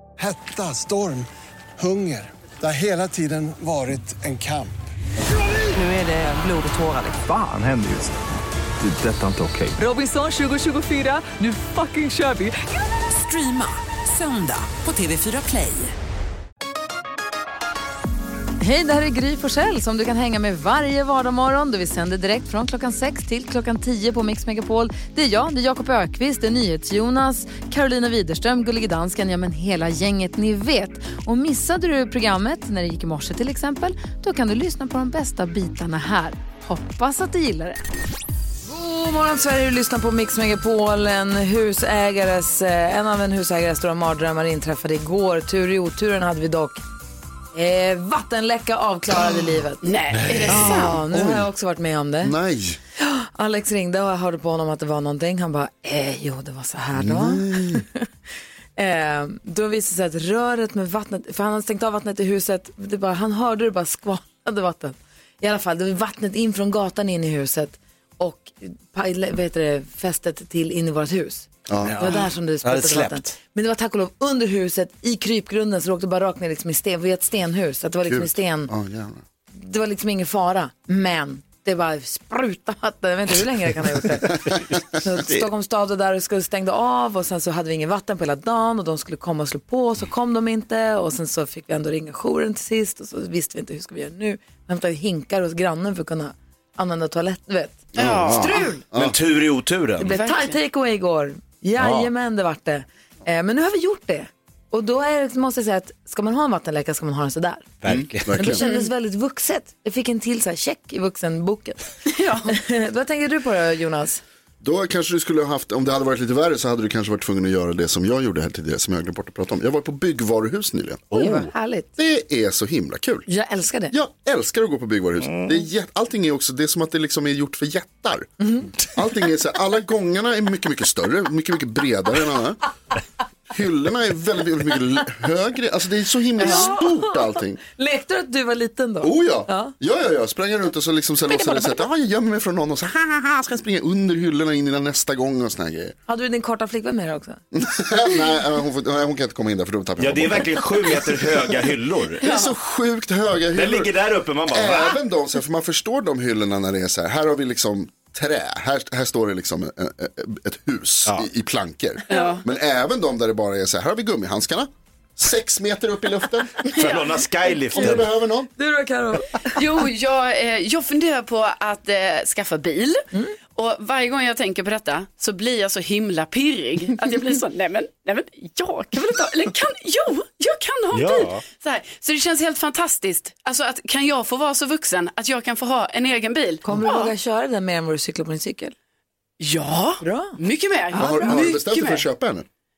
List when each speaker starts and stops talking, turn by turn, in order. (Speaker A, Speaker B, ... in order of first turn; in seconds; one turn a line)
Speaker A: 0.2-4.9
Speaker B: 5.9-7.1
Speaker C: 7.1-8.3
Speaker C: 8.8-9.8
Speaker B: 9.8-15.9
Speaker D: 18.6-37.9
Speaker D: 38.6-46.8
Speaker D: 47.5-49.9
Speaker E: 49.8-50.9
Speaker F: 50.2-51.5
Speaker D: 50.5-52.4
Speaker F: 52.2-52.8
Speaker D: 53.0-58.1
Speaker F: 57.0-57.9
Speaker D: 58.8-78.7
Speaker F: 71.7-72.0
Speaker G: 71.8-73.3
Speaker F: 78.1-79.2
Speaker D: 79.5-98.8
Speaker F: 97.9-99.2
Speaker E: 98.0-98.7
Speaker G: 99.0-100.2
Speaker D: 100.0-107.7
Speaker E: 100.0-100.5
Speaker G: 101.8-102.1
Speaker G: 107.8-108.4
Speaker F: 107.9-108.6
Speaker D: 108.3-111.8
Speaker E: 108.6-108.9
Speaker E: 112.1-112.5
Speaker D: 112.5-114.2
Speaker F: 114.6-121.1
Speaker D: 121.1-121.9
Speaker F: 122.0-123.3
Speaker D: 123.3-124.0
Speaker F: 123.9-128.3
Speaker G: 125.2-125.6
Speaker D: 128.4-128.7
Speaker F: 128.8-132.6
Speaker F: 133.5-137.6
Speaker D: 136.4-139.7
Speaker E: 136.4-136.7
Speaker F: 139.0-146.0
Speaker D: 146.1-147.4
Speaker F: 147.5-151.5
Speaker G: 150.0-152.2
Speaker F: 152.2-153.9
Speaker E: 152.2-152.5
Speaker G: 153.5-155.0
Speaker F: 154.4-166.7
Speaker E: 162.1-162.4
Speaker G: 166.7-168.1
Speaker F: 167.7-168.5
Speaker D: 168.6-169.6
Speaker E: 169.6-187.1
Speaker G: 180.9-181.4
Speaker D: 186.6-188.8
Speaker E: 189.4-192.0
Speaker D: 190.0-190.4
Speaker D: 190.9-191.5
Speaker F: 191.0-192.5